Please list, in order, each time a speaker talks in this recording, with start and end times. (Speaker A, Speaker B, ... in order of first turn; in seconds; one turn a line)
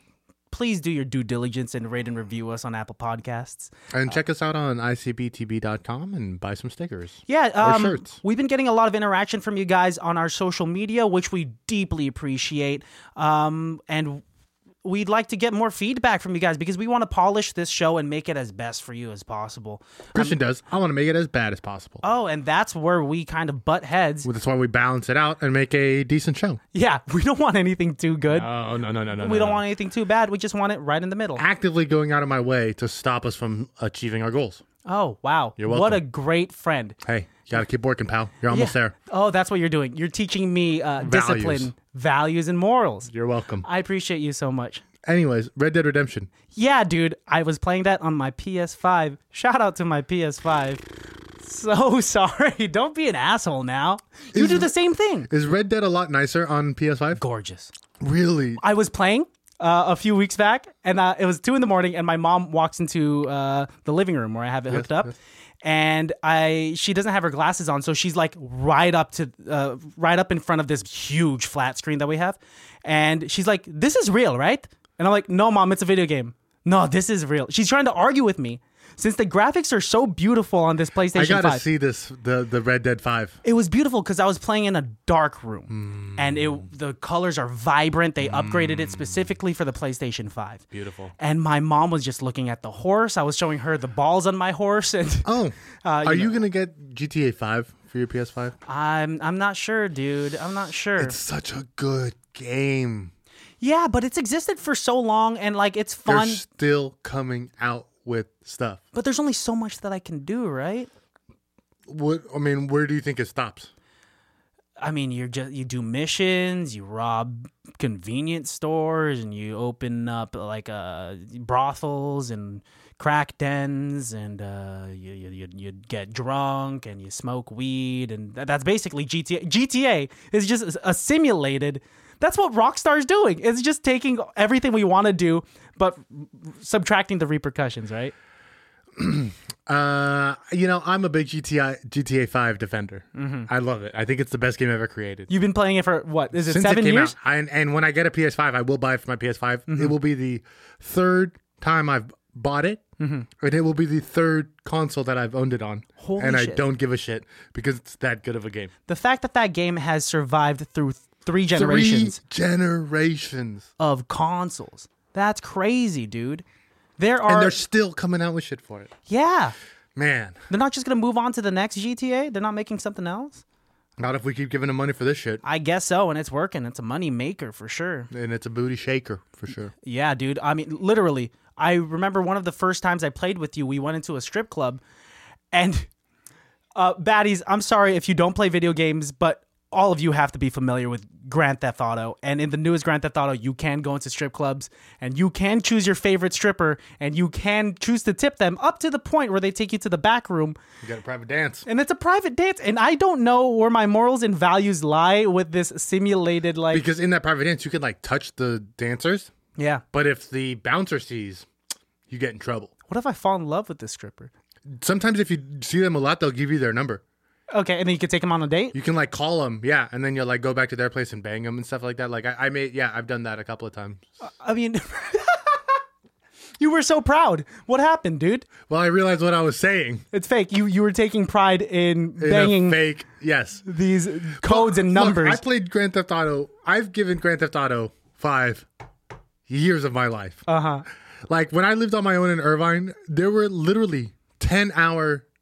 Speaker A: 0.5-3.7
Speaker B: 3.9-8.2
Speaker A: 7.3-14.2
Speaker A: 14.8-20.4
Speaker B: 20.1-22.0
Speaker A: 22.0-24.3
Speaker B: 24.2-26.6
Speaker A: 26.7-28.5
Speaker B: 28.3-29.6
Speaker A: 29.2-31.4
Speaker B: 31.4-34.6
Speaker A: 34.9-37.0
Speaker B: 35.6-36.0
Speaker B: 37.0-38.9
Speaker A: 38.5-43.1
Speaker B: 41.0-41.7
Speaker B: 43.1-43.7
Speaker A: 43.6-44.8
Speaker B: 45.0-46.3
Speaker A: 46.5-50.8
Speaker A: 51.4-55.3
Speaker B: 54.3-54.7
Speaker B: 55.3-57.2
Speaker A: 57.1-57.7
Speaker B: 58.0-58.6
Speaker A: 58.6-81.6
Speaker B: 64.7-65.1
Speaker B: 81.1-83.4
Speaker A: 83.4-90.6
Speaker B: 85.7-86.7
Speaker B: 88.2-89.2
Speaker B: 90.7-91.1
Speaker A: 91.2-95.3
Speaker B: 95.2-98.5
Speaker A: 95.8-96.4
Speaker A: 98.7-101.2
Speaker B: 101.0-103.1
Speaker A: 103.6-106.4
Speaker B: 106.1-108.8
Speaker A: 108.9-110.9
Speaker B: 111.9-113.7
Speaker A: 114.8-138.1
Speaker B: 139.0-145.3
Speaker A: 143.2-143.5
Speaker A: 145.3-147.2
Speaker B: 146.4-152.8
Speaker A: 149.7-149.9
Speaker A: 153.0-153.3
Speaker B: 153.4-158.7
Speaker A: 156.0-156.6
Speaker A: 158.9-162.2
Speaker B: 161.5-163.7
Speaker A: 163.8-166.4
Speaker A: 167.0-167.6
Speaker B: 167.3-168.9
Speaker A: 169.1-169.5
Speaker B: 169.9-170.4
Speaker A: 170.5-173.4
Speaker B: 174.0-175.4
Speaker A: 175.4-178.1
Speaker B: 178.1-179.7
Speaker A: 179.8-184.8
Speaker A: 185.5-185.9
Speaker A: 186.8-200.6
Speaker B: 200.8-201.7
Speaker A: 201.7-206.8
Speaker B: 206.7-209.3
Speaker A: 209.6-209.8
Speaker B: 209.9-211.5
Speaker B: 212.1-212.7
Speaker A: 212.9-214.3
Speaker B: 214.7-217.0
Speaker A: 217.5-218.8
Speaker B: 218.7-224.0
Speaker A: 224.2-225.8
Speaker A: 226.6-228.5
Speaker B: 228.7-230.0
Speaker A: 230.1-232.8
Speaker B: 232.2-233.6
Speaker A: 233.7-235.4
Speaker B: 234.4-238.7
Speaker B: 239.5-240.4
Speaker A: 240.5-240.8
Speaker B: 241.3-245.2